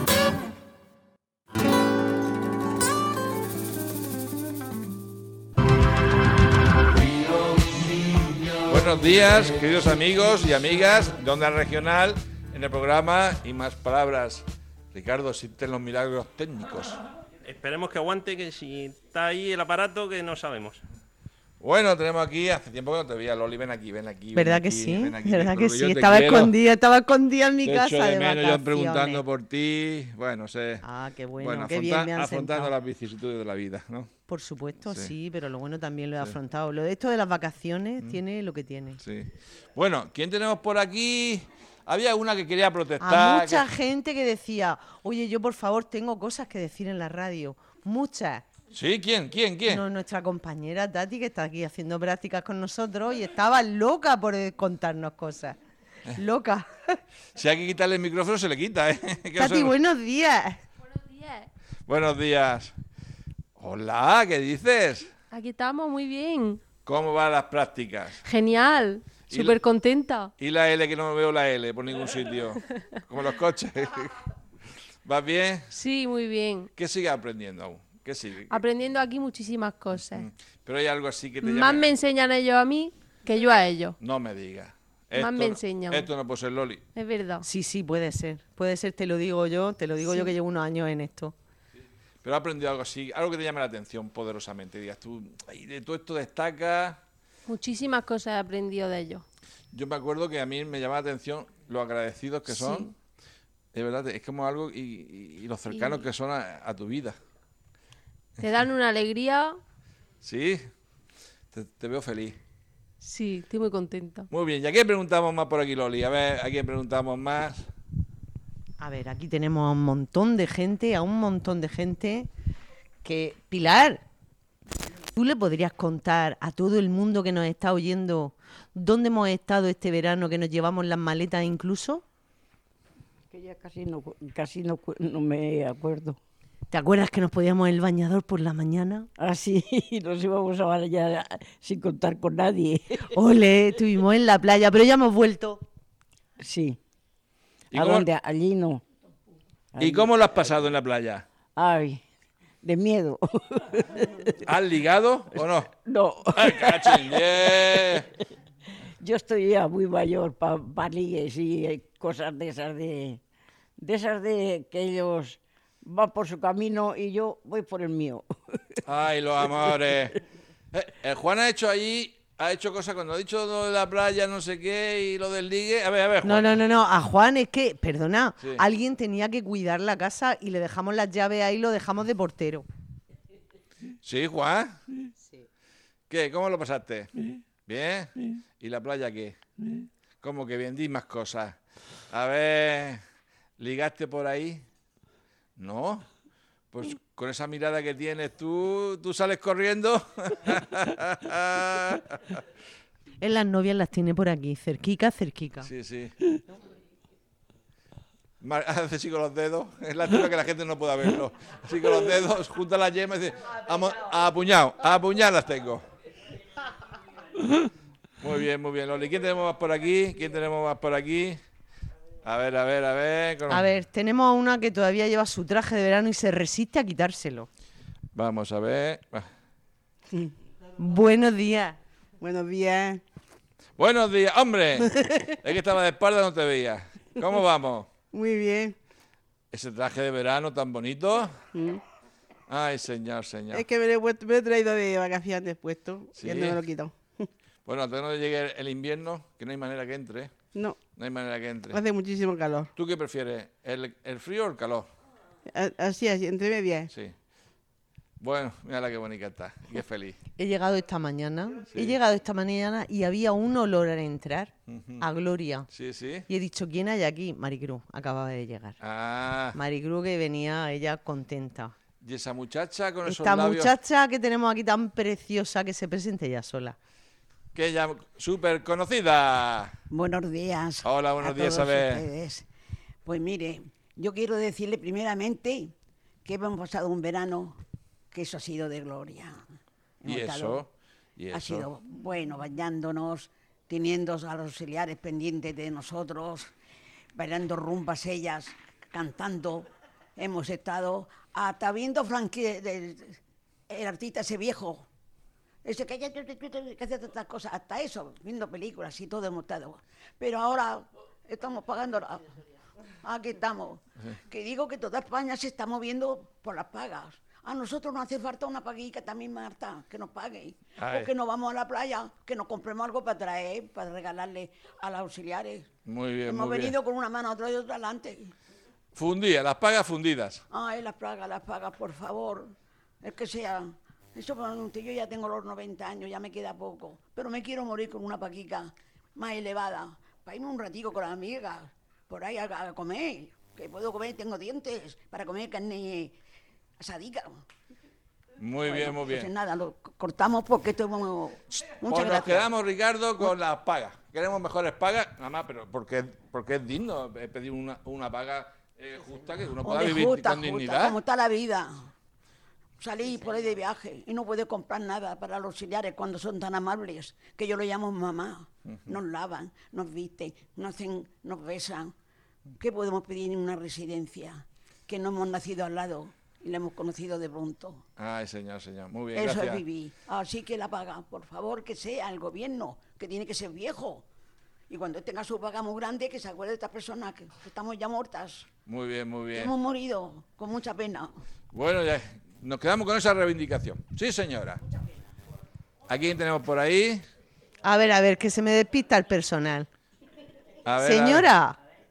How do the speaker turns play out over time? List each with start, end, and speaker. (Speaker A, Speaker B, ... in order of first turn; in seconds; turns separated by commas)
Speaker A: 8.7-17.0, Speaker B: 17.5-20.8, Speaker A: 21.6-26.6, Speaker C: 24.3-29.2, Speaker A: 27.6-30.9, Speaker C: 30.8-32.7, Speaker A: 31.4-34.1, Speaker C: 34.3-39.0, Speaker A: 39.0-43.7, Speaker C: 43.0-48.5, Speaker A: 48.7-49.8, Speaker C: 49.7-55.6, Speaker C: 56.1-57.0, Speaker A: 57.4-59.8, Speaker C: 59.4-60.6, Speaker D: 61.0-61.5, Speaker A: 61.9-62.7, Speaker A: 63.6-65.1, Speaker D: 65.3-66.6, Speaker A: 66.9-68.2, Speaker D: 68.2-70.3, Speaker A: 69.3-69.6, Speaker A: 70.4-74.2, Speaker A: 75.0-75.7, Speaker D: 75.7-76.7, Speaker A: 76.8-78.6, Speaker D: 78.5-80.3, Speaker A: 80.0-81.9, Speaker D: 81.4-84.0, Speaker A: 84.0-86.8, Speaker D: 85.2-86.1, Speaker D: 87.0-87.5, Speaker C: 87.4-91.3, Speaker D: 90.0-90.3, Speaker A: 92.2-97.0, Speaker D: 97.5-99.2, Speaker A: 99.7-102.9, Speaker D: 102.5-102.9, Speaker A: 103.7-107.2, Speaker D: 105.7-106.0, Speaker D: 108.4-109.6, Speaker A: 110.2-110.6, Speaker A: 111.5-112.4, Speaker D: 113.0-114.3, Speaker A: 114.3-117.7, Speaker C: 118.8-122.3, Speaker C: 123.0-124.0, Speaker C: 125.1-132.0, Speaker E: 133.3-136.2, Speaker C: 136.7-139.1, Speaker E: 139.2-143.2, Speaker C: 143.1-145.7, Speaker E: 146.4-146.8, Speaker E: 147.7-148.8, Speaker A: 147.7-148.1, Speaker E: 149.7-150.1, Speaker A: 149.8-151.3, Speaker E: 151.6-152.0, Speaker E: 152.6-154.4, Speaker A: 154.4-155.7, Speaker E: 155.3-158.0, Speaker A: 156.3-158.1, Speaker E: 159.0-163.2, Speaker E: 163.8-168.8, Speaker A: 168.8-170.2, Speaker A: 170.7-176.6, Speaker C: 176.2-182.7, Speaker A: 184.0-184.8, Speaker A: 186.1-187.1, Speaker A: 187.7-189.4, Speaker A: 190.2-191.6, Speaker A: 192.1-193.0, Speaker A: 193.6-194.6, Speaker A: 195.6-196.1, Speaker A: 196.7-202.4, Speaker C: 203.2-205.7, Speaker A: 205.6-206.2, Speaker A: 208.4-215.8, Speaker A: 218.2-221.4, Speaker A: 222.2-223.7, Speaker C: 223.5-227.5, Speaker A: 228.2-229.2, Speaker C: 230.8-231.8, Speaker F: 232.2-233.0, Speaker A: 233.8-237.9, Speaker F: 238.1-238.8, Speaker A: 239.5-241.3, Speaker A: 242.5-243.7, Speaker F: 243.5-246.9, Speaker A: 246.2-246.6, Speaker A: 247.7-250.3, Speaker A: 251.0-251.8, Speaker F: 251.7-252.7, Speaker A: 252.8-254.9, Speaker F: 255.5-256.9, Speaker A: 258.2-260.2, Speaker C: 260.4-265.7, Speaker A: 264.7-265.1, Speaker A: 265.7-266.3, Speaker C: 266.3-268.8, Speaker A: 268.8-269.6, Speaker C: 269.5-271.8, Speaker A: 272.0-273.7, Speaker C: 273.1-276.8, Speaker A: 277.6-279.7, Speaker G: 279.9-282.5, Speaker A: 280.8-282.1, Speaker G: 283.1-285.7, Speaker G: 286.2-287.6, Speaker G: 288.1-289.4, Speaker G: 290.0-290.6, Speaker A: 290.1-291.7, Speaker G: 291.3-296.5, Speaker G: 297.2-304.9, Speaker G: 305.6-312.3, Speaker G: 313.0-325.7, Speaker A: 320.8-321.1, Speaker A: 325.9-326.7, Speaker G: 326.3-328.3, Speaker A: 328.9-330.4, Speaker G: 330.5-346.2, Speaker G: 346.8-347.4, Speaker A: 348.4-349.3, Speaker G: 348.6-352.5, Speaker A: 351.5-361.0, Speaker G: 359.6-361.7, Speaker G: 362.8-371.9, Speaker G: 372.6-377.8, Speaker A: 378.0-379.6, Speaker G: 379.1-384.1, Speaker G: 384.7-388.5, Speaker A: 388.7-389.5, Speaker G: 389.4-391.1, Speaker A: 391.5-394.6, Speaker A: 395.9-397.0, Speaker C: 397.6-399.7, Speaker A: 400.6-401.3, Speaker C: 400.8-401.6